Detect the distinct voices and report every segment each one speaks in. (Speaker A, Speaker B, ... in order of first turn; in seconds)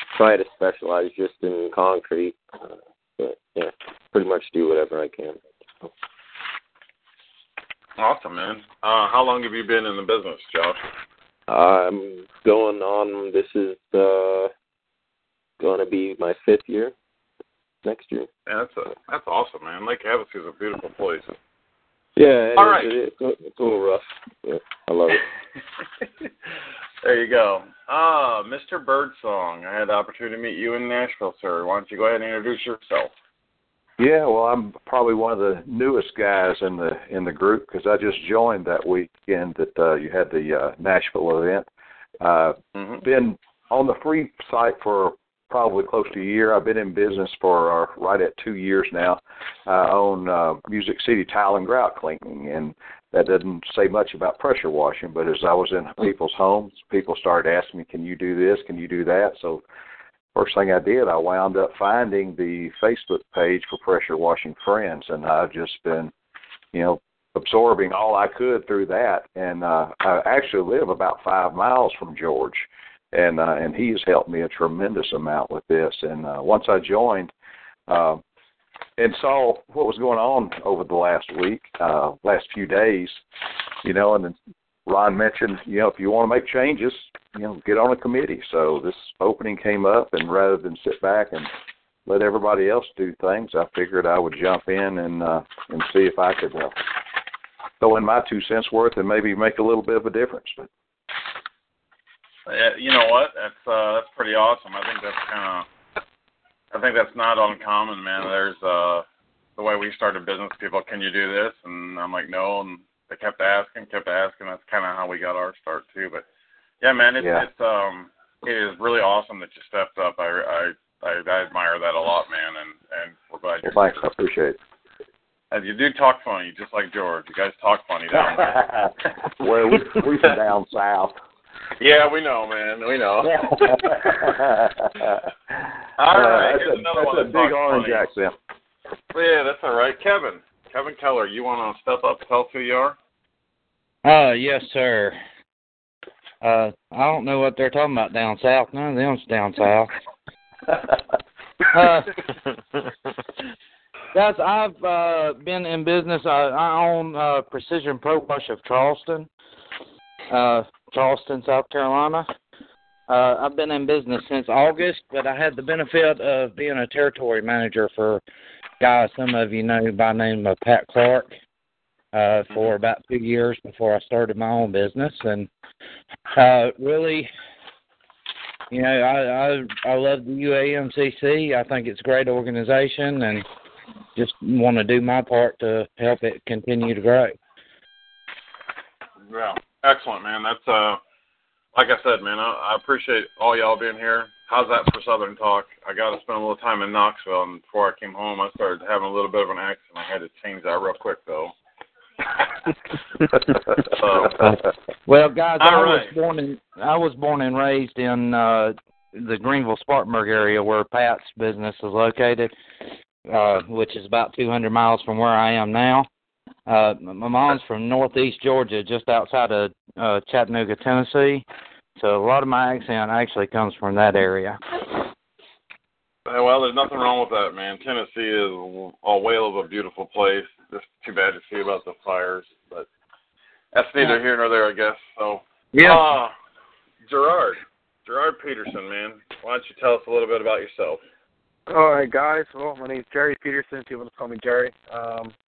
Speaker A: 0.1-5.9, 11.5-14.5, 15.6-16.9, 17.8-18.3, 22.1-25.2
Speaker B: 8.0-10.8, 18.5-21.3, 22.6-22.9, 27.0-33.1, 42.8-43.0, 102.5-105.7, 106.7-109.0, 109.6-116.2, 116.8-123.7, 125.5-128.6, 131.8-134.3, 136.0-138.1, 139.1-142.9, 189.3-191.0, 191.7-201.5, 203.9-204.4, 205.6-206.1, 226.2-232.9, 233.7-236.3, 237.1-241.0
Speaker C: 34.0-41.7, 42.2-59.6, 60.3-66.1, 66.7-77.3, 77.9-78.2, 79.0-83.2, 83.8-91.5, 92.0-96.7, 97.8-100.7, 117.2-117.5, 123.6-124.6, 128.1-131.2, 133.2-135.1, 136.1-138.3
Speaker D: 144.0-145.2, 146.4-149.9, 151.7-152.3, 154.1-159.3, 160.3-162.3, 163.1-168.2, 168.8-171.3, 172.1-175.5, 176.3-177.3, 178.7-183.4, 184.2-187.4, 204.2-212.5, 213.3-216.1, 216.7-221.4, 222.0-224.6, 235.7-236.0
Speaker E: 241.7-245.3